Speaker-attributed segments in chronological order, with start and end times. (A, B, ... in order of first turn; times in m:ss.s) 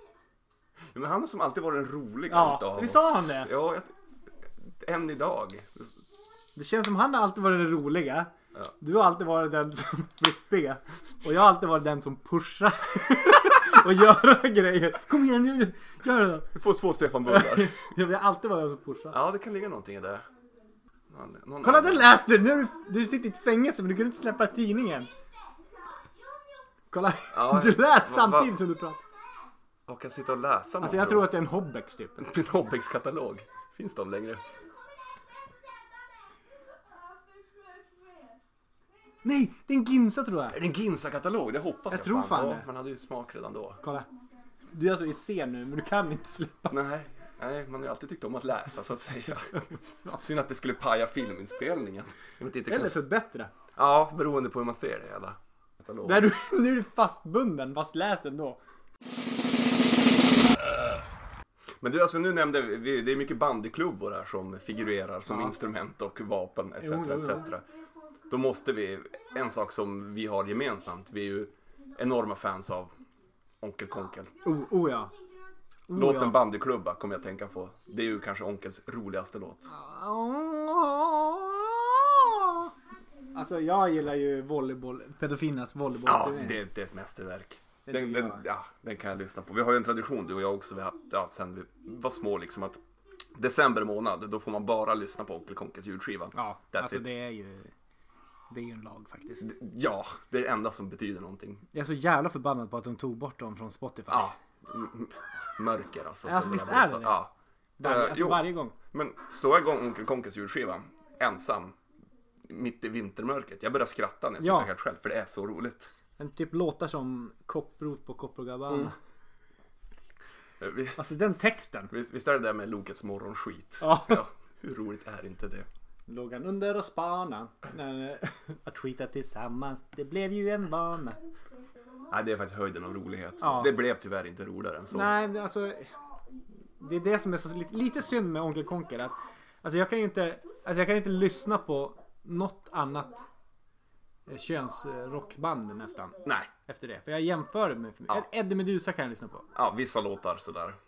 0:00.9-0:03.9 A
0:02.3-0:03.5 B
0:04.6-0:06.0 A
0:06.6-0:16.5 B
0:16.5-0:17.8 A
0:17.2-0:19.2 B
0:19.1-0:20.3 A
0:21.1-0:22.1 A
0:21.6-0:25.1 B
0:26.9-0:29.0 B
0:27.3-0:28.5 A
0:29.9-0:31.3 A
0:30.8-0:32.2 B
0:32.2-0:34.4 A
0:39.2-0:40.6 B
0:40.5-0:43.8 A
0:41.9-0:42.7 B
0:43.8-0:44.1 B
0:44.7-0:46.8 B
0:46.7-0:53.0 A
0:52.7-0:53.5 B
0:53.8-0:56.3 A
0:56.0-0:58.6 B
1:01.8-1:07.6 A
1:06.8-1:07.5 B
1:08.3-1:12.9 A
1:13.6-1:14.3 A
1:14.4-1:15.1 B
1:15.9-1:16.4 B
1:16.0-1:19.7 A
1:19.7-1:22.7 B
1:23.3-1:26.6 B
1:26.0-1:32.8 A
1:27.9-1:28.4 B
1:33.4-1:37.1 A
1:36.3-1:37.7 B
1:38.5-1:39.5 B
1:39.4-1:41.6 A
1:41.7-1:44.4 B
1:44.1-1:47.3 A
1:46.2-1:47.2 B
1:47.8-1:48.8 B
1:47.8-1:51.8 A
1:52.4-1:55.9 A
1:54.4-1:54.7 B
1:56.2-1:59.0 B
2:00.6-2:01.0 A
2:01.0-2:01.9 B
2:01.9-2:05.7 A
2:03.8-2:04.2 B
2:06.1-2:11.2 B
2:12.1-2:15.1 A
2:13.4-2:13.8 B
2:14.9-2:15.9 B
2:16.8-2:23.3 B
2:24.3-2:29.5 B
2:26.2-2:26.5 A
2:29.5-2:30.8 A